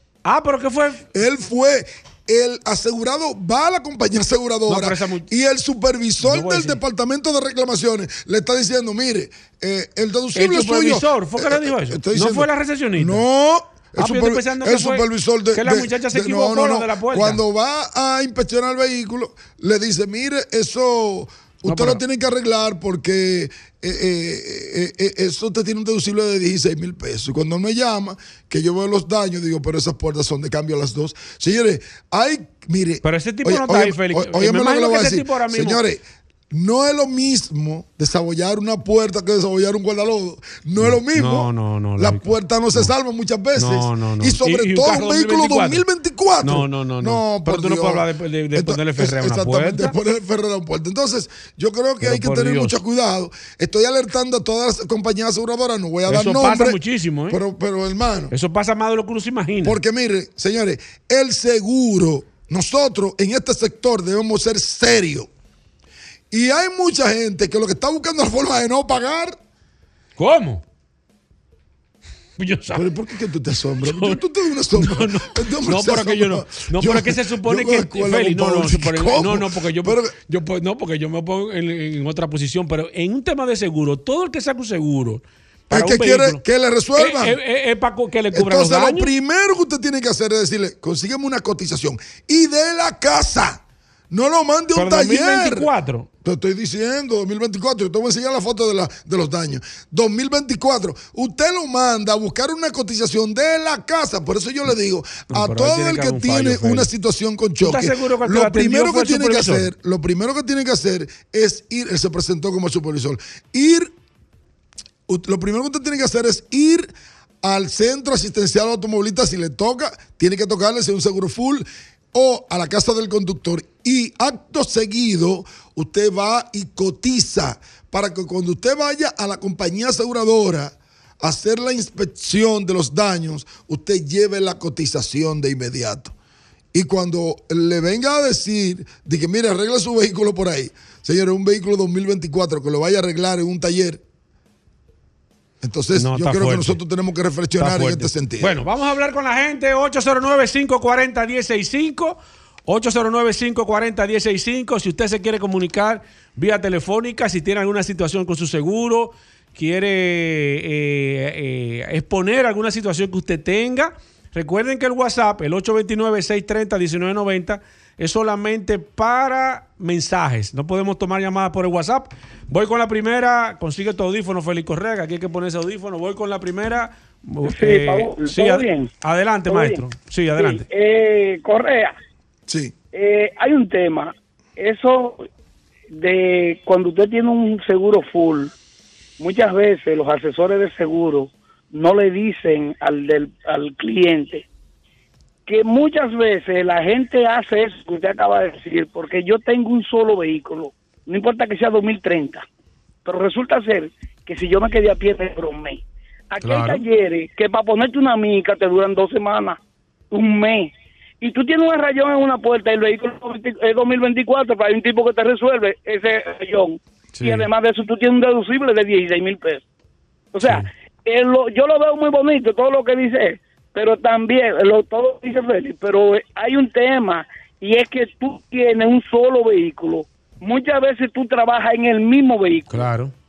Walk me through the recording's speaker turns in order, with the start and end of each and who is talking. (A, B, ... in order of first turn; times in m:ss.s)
0:00.2-0:01.0 A
0:01.1-0:56.8 B
0:04.7-0:05.3 A
0:06.2-0:06.8 A
0:10.4-0:13.2 A
0:14.0-0:17.4 A
0:21.7-0:22.0 A
0:33.0-0:35.8 A
0:40.8-0:42.9 A
0:43.6-0:45.8 A
0:46.4-0:49.9 A
0:52.0-0:52.8 A
0:56.1-0:57.4 A
0:57.3-0:58.3 B
0:58.3-0:59.8 A
0:59.6-1:05.3 B
1:06.3-1:09.4 B
1:10.2-1:10.6 A
1:12.4-1:13.0 A
1:12.7-1:20.1 B
1:13.8-1:14.2 A
1:14.7-1:26.4 A
1:25.7-1:27.4 B
1:27.0-1:29.1 A
1:28.3-1:33.6 B
1:34.1-1:35.7 B
1:34.7-1:36.1 A
1:36.2-1:53.9 B
1:45.3-1:46.9 A
1:47.6-1:49.7 A
1:55.1-1:56.9 B
1:57.4-2:16.1 B
2:16.7-2:24.0 B
2:25.6-2:28.7 B
2:26.0-2:26.8 A
2:27.6-3:00.6 A
2:57.5-2:58.9 C
2:59.5-2:59.8 C
3:00.4-3:02.0 C
3:02.5-3:02.7 B
3:02.9-3:05.2 C
3:06.0-3:08.5 C
3:09.2-3:14.4 C
3:15.5-3:22.4 C
3:23.0-3:29.6 C
3:26.4-3:26.8 A
3:30.1-3:39.6 C
3:37.2-3:37.5 A
3:40.3-3:52.9 C
3:52.7-3:53.1 A